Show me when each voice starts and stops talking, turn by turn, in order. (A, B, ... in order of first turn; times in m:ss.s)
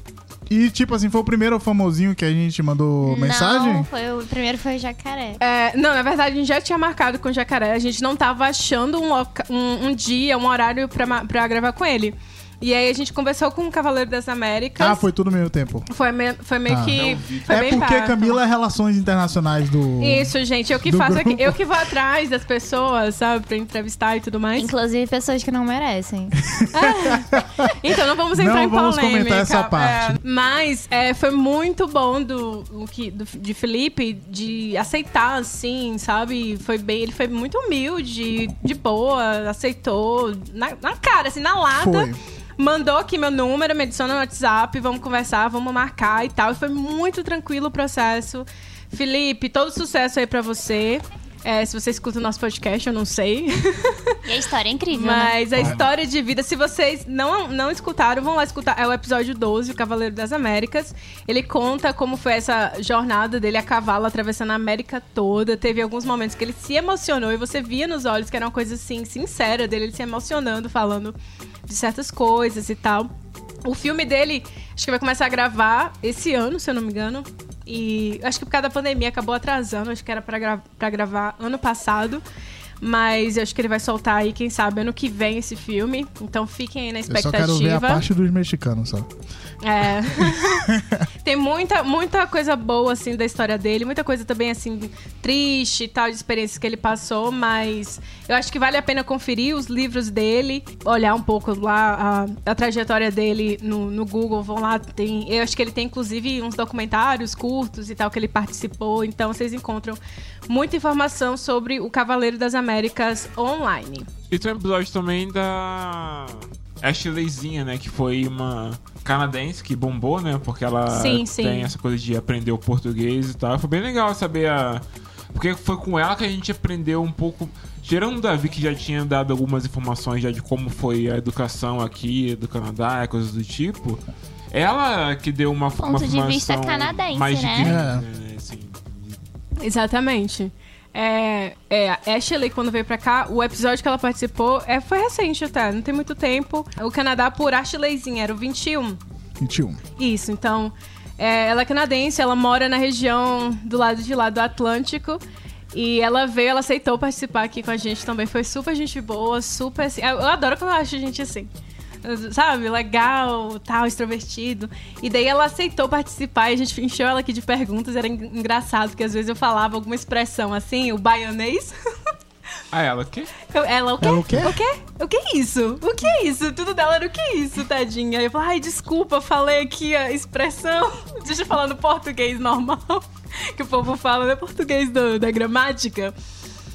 0:00.5-0:03.9 A
0:03.0-0:05.4 B
0:05.4-0:15.0 C
0:14.8-0:15.9 A
0:15.9-0:18.4 C
0:16.7-0:21.6 A
0:16.9-0:17.9 D
0:20.0-0:24.7 C
0:24.6-0:26.4 B
0:26.5-0:27.7 A
0:26.7-0:54.2 C
0:28.3-0:30.2 A
0:41.8-0:42.2 A
0:54.3-0:55.5 B
0:54.9-1:11.2 C
0:55.6-0:55.8 A
0:55.6-0:55.8 D
1:11.7-1:13.1 C
1:13.6-1:22.2 C
1:22.8-1:28.0 C
1:27.1-1:29.1 A
1:29.6-1:30.7 C
1:30.2-1:31.0 A
1:31.2-1:54.1 C
1:54.3-2:19.2 D
2:00.9-2:01.7 C
2:15.8-2:17.7 B
2:17.6-2:18.0 A
2:19.6-2:29.0 C
2:29.4-2:29.8 A
2:30.0-2:35.2 C
2:35.7-2:41.5 C
2:42.0-2:51.8 C
2:52.7-2:53.4 D
2:53.5-3:06.1 C
2:54.0-2:54.6 A